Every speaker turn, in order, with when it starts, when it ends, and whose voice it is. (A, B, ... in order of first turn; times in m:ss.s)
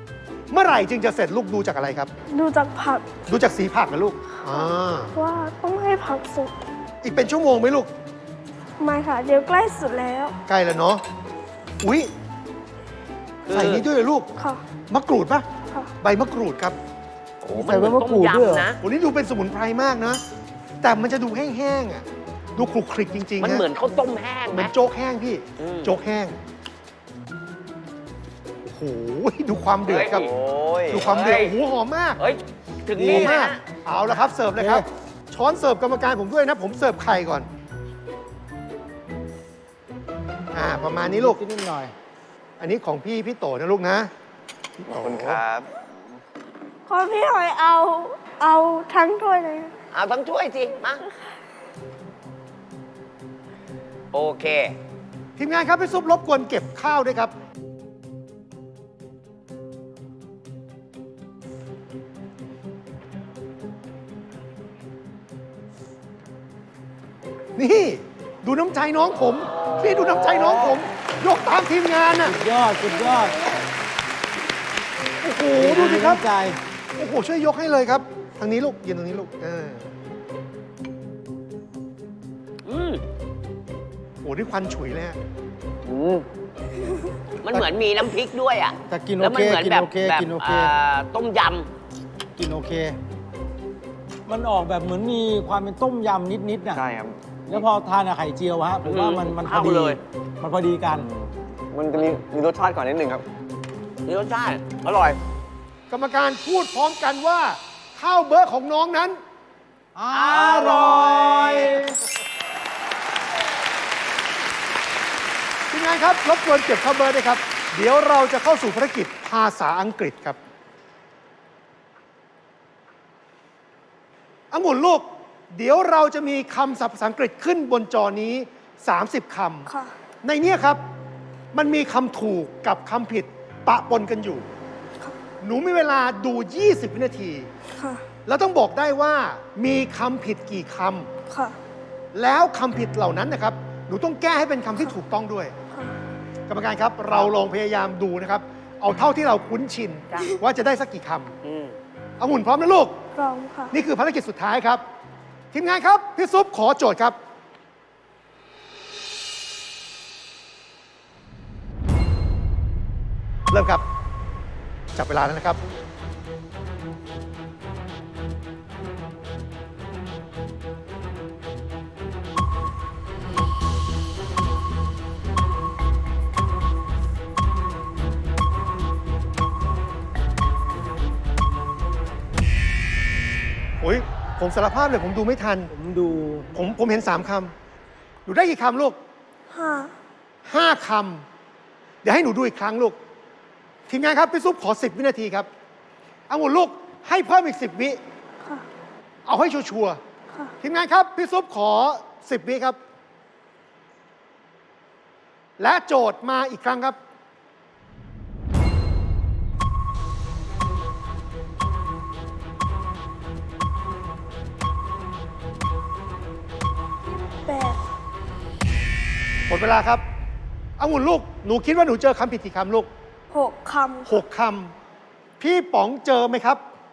0:00.5-0:02.1 A
0:02.3-0:03.1 B
0:03.3-0:05.1 A
0:04.4-0:06.5 B
0:07.0-0:07.9 A
0:08.8-0:10.4 B
0:10.5-0:11.0 A
0:11.8-0:12.1 A
0:13.5-0:13.8 C
0:13.5-0:14.3 A
0:14.4-0:14.6 B
0:14.9-0:15.4 A
0:16.0-0:16.8 A
0:17.4-0:18.8 C
0:17.6-0:18.7 D
0:18.8-0:20.2 A
0:20.8-0:23.6 A
0:23.4-0:24.7 C
0:24.5-0:26.4 A
0:25.6-0:25.9 C
0:28.6-0:30.3 A
0:29.8-0:30.3 C
0:30.1-0:31.2 E
0:30.9-0:32.2 A
0:30.9-0:31.6 C
0:32.2-0:33.6 C
0:32.9-0:33.4 D
0:33.0-0:37.5 A
0:34.6-0:34.9 D
0:40.5-0:41.4 A
0:41.0-0:41.9 D
0:42.6-0:44.1 A
0:44.8-0:45.3 D
0:44.9-0:45.4 A
0:44.9-0:45.7 E
0:46.9-0:49.7 B
0:49.9-0:51.0 C
0:54.1-0:54.7 C
0:55.4-0:57.3 A
1:07.6-1:12.3 A
1:09.6-1:10.8 C
1:12.2-1:13.5 D
1:15.2-1:16.2 A
1:15.5-1:16.6 D
1:17.0-1:19.9 A
1:22.6-1:23.0 C
1:24.2-1:25.2 A
1:25.8-1:26.2 E
1:27.4-1:31.7 C
1:28.9-1:30.7 D
1:32.4-1:33.0 D
1:34.3-1:36.8 D
1:36.7-1:37.4 E
1:37.5-1:41.1 D
1:38.8-1:40.0 C
1:41.0-1:43.2 E
1:44.0-1:45.2 C
1:45.9-1:49.2 A
1:50.0-1:52.0 D
1:50.1-1:51.8 C
1:55.7-2:00.4 A
2:04.5-2:09.7 A
2:09.7-2:09.9 B
2:10.2-2:10.8 A
2:11.5-2:14.4 A
2:15.4-2:17.5 A
2:17.7-2:18.0 B
2:18.2-2:21.1 A
2:21.3-2:21.6 B
2:22.1-2:25.5 A
2:25.7-2:26.0 B
2:26.5-2:31.3 A
2:31.4-2:31.8 C
2:32.2-2:33.0 A
2:33.1-2:33.8 B
2:33.7-2:34.8 A
2:35.5-2:37.2 A
2:43.5-2:43.8 A
2:44.9-2:45.6 A
3:03.8-3:05.7 A
3:05.7-3:06.6 D
3:06.5-3:07.5 A
3:08.2-3:09.0 A
3:09.5-3:09.9 B
3:10.4-3:11.2 A
3:12.0-3:13.0 A
3:13.9-3:15.5 A
3:16.3-3:18.0 A
3:19.2-3:20.0 A
3:20.3-3:20.6 B
3:20.6-3:22.8 A
3:25.6-3:27.0 A
3:37.1-3:37.8 B
3:39.5-3:40.0 A
3:40.8-3:42.9 A
3:43.3-3:44.2 B
3:44.1-3:44.7 A
3:45.4-3:46.6 A